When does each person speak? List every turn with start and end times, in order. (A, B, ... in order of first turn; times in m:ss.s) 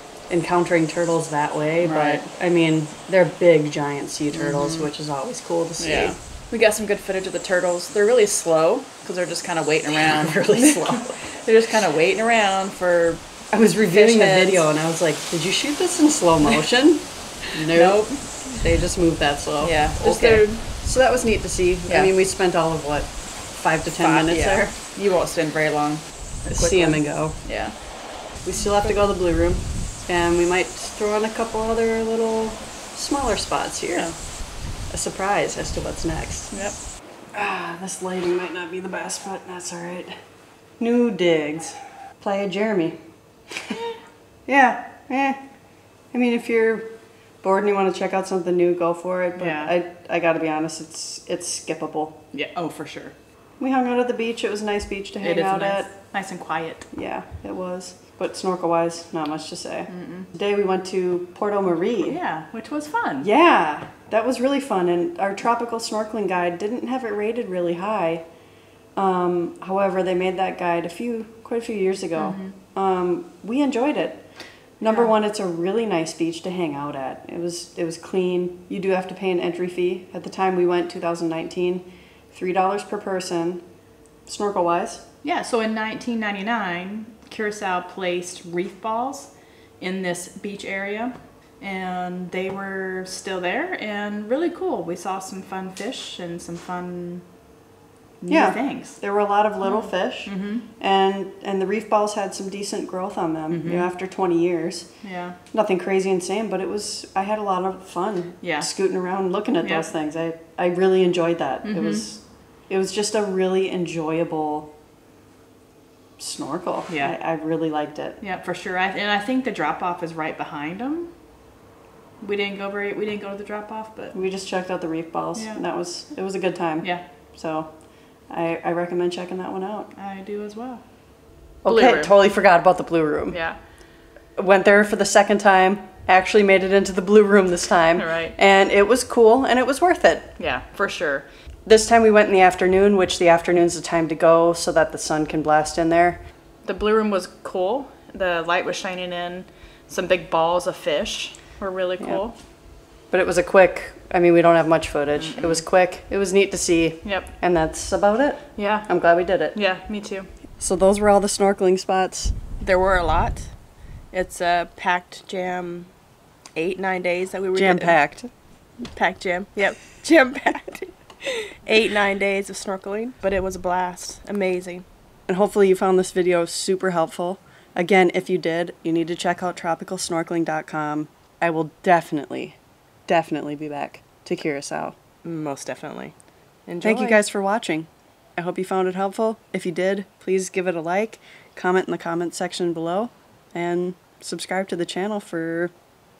0:00.3-0:06.1 A
0:01.8-0:02.2 B
0:04.3-0:04.9 B
0:05.8-0:13.2 B
0:10.0-0:11.2 A
0:13.5-0:24.7 A
0:13.9-0:14.6 B
0:17.6-0:18.5 B
0:19.6-0:20.6 B
0:24.0-0:29.1 B
0:26.5-0:27.4 A
0:28.4-0:36.6 A
0:33.9-0:34.2 B
0:36.5-0:36.8 B
0:37.3-0:40.1 A
0:40.8-0:43.0 A
0:44.4-0:45.4 A
0:46.0-0:52.2 A
0:49.4-0:49.7 B
0:52.3-0:53.1 B
0:53.6-0:56.1 A
0:55.2-0:56.9 B
0:56.9-1:02.2 A
0:59.9-1:00.3 B
1:02.0-1:03.3 B
1:03.2-1:08.4 A
1:08.9-1:23.6 A
1:12.2-1:12.6 B
1:14.9-1:15.1 B
1:24.2-1:25.0 A
1:25.2-1:37.3 B
1:38.2-1:39.0 B
1:38.3-1:54.7 A
1:39.6-1:40.6 B
1:43.5-1:43.9 B
1:45.0-1:45.4 B
1:48.4-1:48.7 B
1:49.6-1:49.9 B
1:51.6-1:52.2 B
1:56.2-1:58.2 A
1:56.9-1:57.1 B
1:58.2-2:01.2 B
2:02.2-2:04.2 B
2:04.1-2:09.9 A
2:05.3-2:05.6 B
2:09.9-2:12.1 B
2:11.6-2:20.4 A
2:13.3-2:13.6 B
2:17.9-2:18.4 B
2:20.4-2:21.3 B
2:21.6-2:26.2 A
2:26.6-2:32.4 B
2:32.0-2:32.3 A
2:33.0-2:39.6 A
2:35.2-2:35.6 B
2:37.0-2:37.3 B
2:38.6-2:40.3 B
2:40.6-2:42.4 A
2:42.6-2:43.6 C
2:44.1-2:45.9 C
2:46.5-2:48.0 C
2:47.5-2:48.3 A
2:48.8-2:54.8 C
2:55.3-3:05.0 A
3:05.2-3:07.2 C
3:06.8-3:15.8 A